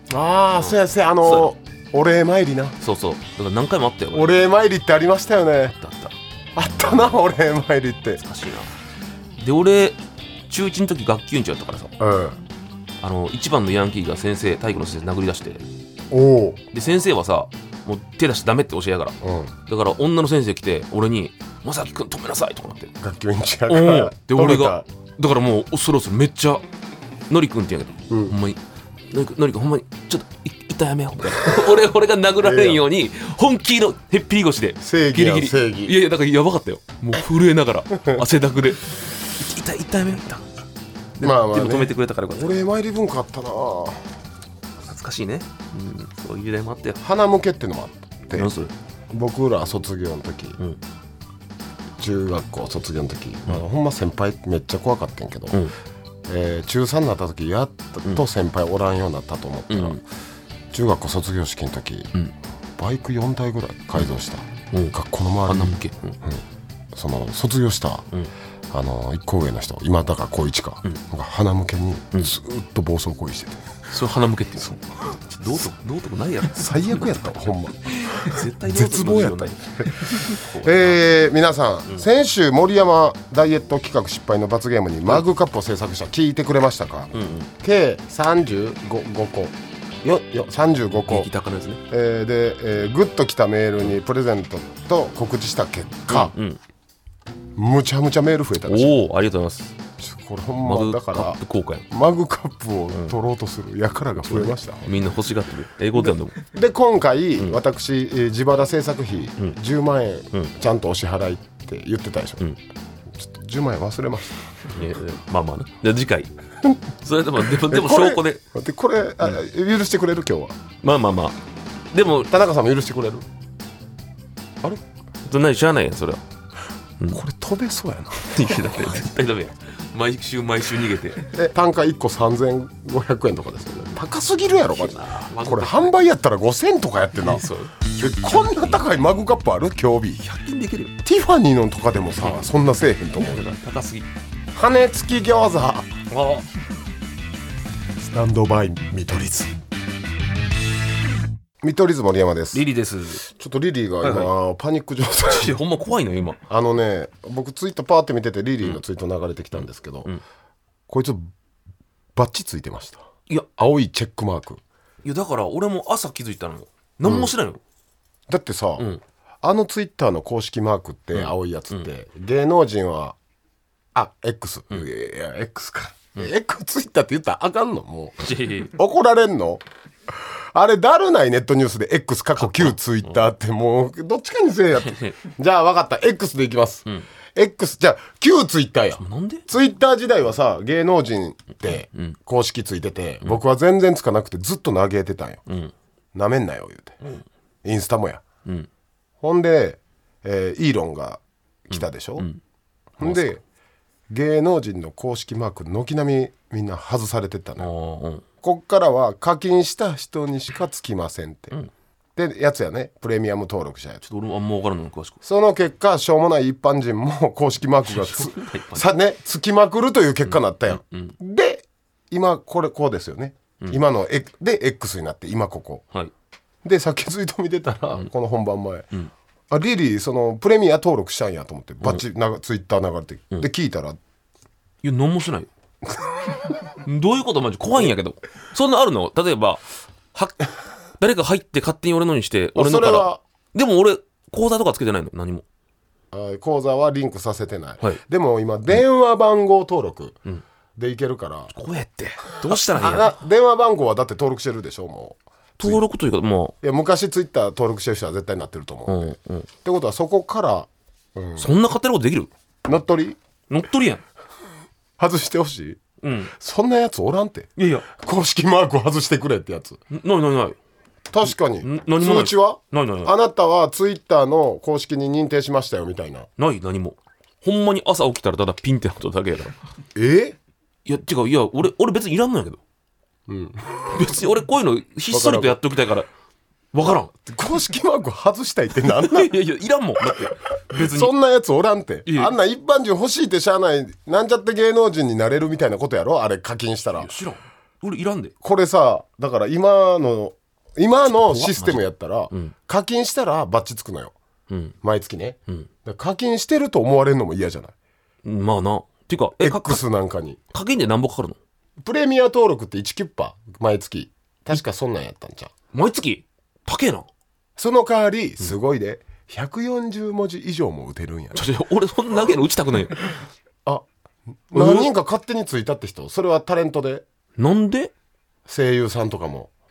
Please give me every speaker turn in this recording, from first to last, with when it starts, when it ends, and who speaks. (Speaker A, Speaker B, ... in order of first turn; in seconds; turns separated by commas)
Speaker A: 0.1-2.8, Speaker B: 0.6-1.5, Speaker B: 2.8-4.4, Speaker A: 4.1-5.7, Speaker B: 5.7-6.1, Speaker A: 6.5-8.2, Speaker B: 8.2-8.7, Speaker B: 9.4-11.9, Speaker A: 12.0-12.4, Speaker B: 13.0-15.6, Speaker A: 16.1-16.6, Speaker B: 16.7-22.9, Speaker A: 19.2-19.5, Speaker A: 23.0-24.9, Speaker B: 23.7-26.6, Speaker B: 27.3-28.6, Speaker A: 28.1-28.3, Speaker B: 29.1-40.5, Speaker A: 32.4-32.8, Speaker A: 34.8-36.0, Speaker A: 38.0-38.2, Speaker B: 41.1-42.5, Speaker A: 41.2-44.0, Speaker B: 44.8-47.0, Speaker A: 47.0-48.5, Speaker B: 48.3-48.7, Speaker A: 49.1-50.6, Speaker A: 52.0-55.6, Speaker A: 56.3-60.0, Speaker B: 59.7-60.0, Speaker A: 60.7-62.1, Speaker A: 62.8-68.0, Speaker B: 65.5-66.2, Speaker A: 68.7-73.6, Speaker B: 73.9-77.2, Speaker A: 76.5-91.3, Speaker B: 77.9-81.0, Speaker B: 87.1-87.5, Speaker B: 91.0-91.8, Speaker A: 91.9-96.3, Speaker B: 96.1-96.6, Speaker A: 97.5-99.0, Speaker B: 98.7-99.7, Speaker A: 100.0-101.4, Speaker B: 100.6-101.9, Speaker A: 101.9-104.9, Speaker B: 104.2-106.4, Speaker A: 106.0-112.4, Speaker A: 113.1-114.9, Speaker B: 114.7-116.3, Speaker B: 117.0-118.4, Speaker A: 117.4-120.6, Speaker B: 120.8-121.4, Speaker B: 121.9-122.3, Speaker A: 122.3-123.2, Speaker B: 125.2-126.2, Speaker A: 127.1-129.0, Speaker B: 128.3-131.3, Speaker A: 131.2-140.2, Speaker B: 134.7-135.9, Speaker B: 137.2-137.8, Speaker B: 140.2-140.9, Speaker A: 141.0-143.4, Speaker B: 142.2-142.5, Speaker B: 143.1-144.1, Speaker A: 144.5-145.9, Speaker B: 146.1-146.5, Speaker A: 148.0-149.5, Speaker A: 151.6-152.7, Speaker B: 152.5-153.2, Speaker A: 153.2-155.6, Speaker B: 154.0-154.3, Speaker B: 155.2-156.4, Speaker A: 156.5-160.1, Speaker A: 160.9-161.3, Speaker A: 162.2-163.0, Speaker A: 163.6-164.6, Speaker B: 165.0-167.6, Speaker A: 167.0-167.3, Speaker A: 168.3-168.9, Speaker A: 169.4-173.2, Speaker B: 171.1-171.9, Speaker A: 173.9-195.4, Speaker B: 178.2-178.7, Speaker B: 182.4-183.1, Speaker B: 184.8-185.2, Speaker B: 189.0-189.5, Speaker B: 191.9-192.2, Speaker B: 195.5-195.7, Speaker A: 196.1-197.0, Speaker A: 197.6-198.2, Speaker A: 199.2-202.3, Speaker B: 201.7-202.4, Speaker A: 203.0-203.4, Speaker B: 203.0-203.4, Speaker A: 204.1-207.7, Speaker B: 207.6-208.2, Speaker A: 208.4-211.5, Speaker A: 212.2-214.0, Speaker B: 214.0-215.2, Speaker A: 215.2-225.8, Speaker B: 217.8-218.9, Speaker B: 220.3-221.1, Speaker A: 226.6-228.9, Speaker A: 229.5-234.0, Speaker B: 234.8-235.5, Speaker A: 235.9-236.5, Speaker B: 236.8-239.6, Speaker B: 240.1-240.4, Speaker B: 241.0-245.4, Speaker A: 242.6-243.2, Speaker A: 246.1-250.2, Speaker A: 250.8-251.5, Speaker B: 251.5-253.1, Speaker A: 252.4-255.8, Speaker B: 255.6-256.5, Speaker A: 256.6-261.5, Speaker B: 258.9-259.5, Speaker B: 261.4-262.3, Speaker A: 262.6-263.2, Speaker B: 263.5-264.0, Speaker A: 265.0-265.8, Speaker B: 266.0-266.3, Speaker A: 266.3-269.8, Speaker B: 267.6-267.9, Speaker B: 269.9-270.6, Speaker A: 271.1-276.3, Speaker B: 271.2-273.1, Speaker B: 276.4-279.5, Speaker A: 279.9-280.4, Speaker B: 280.9-282.6, Speaker A: 283.3-284.1, Speaker B: 283.9-286.1, Speaker A: 285.1-285.6, Speaker B: 286.7-287.1, Speaker A: 286.8-289.3, Speaker B: 288.9-291.1, Speaker A: 290.0-297.1, Speaker B: 292.1-292.3, Speaker B: 296.9-298.3, Speaker A: 298.4-304.1, Speaker B: 301.1-302.5, Speaker B: 304.5-304.7, Speaker A: 304.8-307.7, Speaker B: 308.2-309.8, Speaker A: 309.4-310.4, Speaker B: 310.5-311.4, Speaker A: 311.8-315.5, Speaker B: 315.7-317.1, Speaker A: 317.6-321.5, Speaker B: 321.3-323.1, Speaker A: 324.5-327.0, Speaker B: 324.5-324.9, Speaker B: 327.4-327.9, Speaker A: 328.4-329.5